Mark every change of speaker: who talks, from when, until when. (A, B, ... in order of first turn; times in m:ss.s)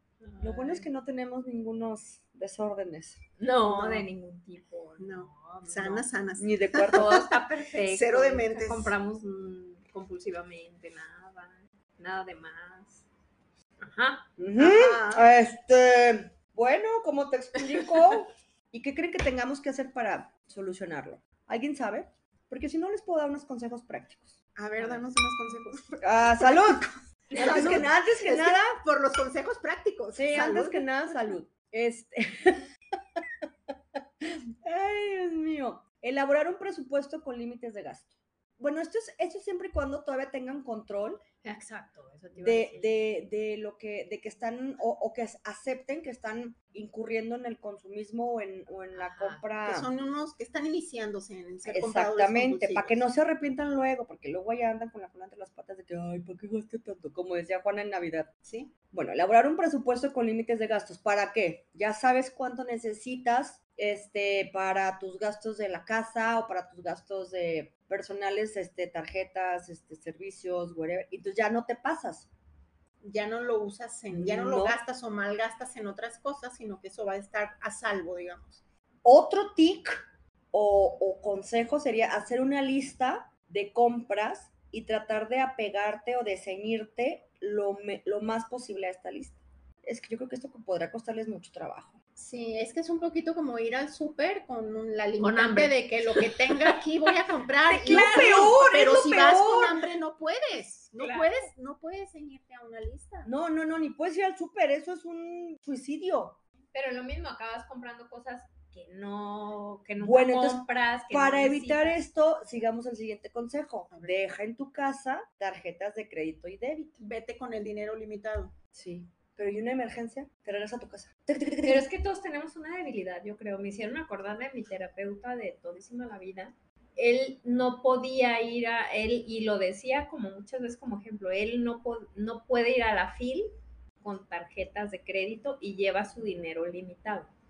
0:00.2-0:00.8 A
0:00.4-0:03.2 B
0:03.4-0:06.0 A
0:03.6-0:04.1 C
0:05.0-0:08.9 C
0:06.4-0:07.1 B
0:06.9-0:13.0 A
0:13.8-0:14.3 A
0:14.4-0:24.4 B
0:14.6-0:15.2 C
0:24.6-0:26.8 C
0:26.0-0:28.8 B
0:27.3-0:27.7 A
0:27.3-0:31.2 C
0:30.1-0:33.4 B
0:34.2-0:41.2 B
0:41.4-0:42.9 A
0:42.4-0:49.9 B
0:48.9-0:49.4 A
0:49.6-0:53.0 C
0:51.6-0:58.3 B
0:58.4-0:58.7 C
0:58.9-1:12.3 B
1:13.0-1:18.6 C
1:14.1-1:14.8 B
1:19.0-1:32.0 B
1:32.2-1:43.3 C
1:35.2-1:36.8 A
1:37.7-1:39.1 A
1:37.8-1:39.8 B
1:41.0-1:41.5 A
1:43.2-1:46.4 B
1:46.7-1:52.0 A
1:50.0-1:57.0 B
1:53.9-1:54.3 C
1:57.0-1:58.5 C
1:58.7-2:01.9 B
2:01.6-2:17.3 A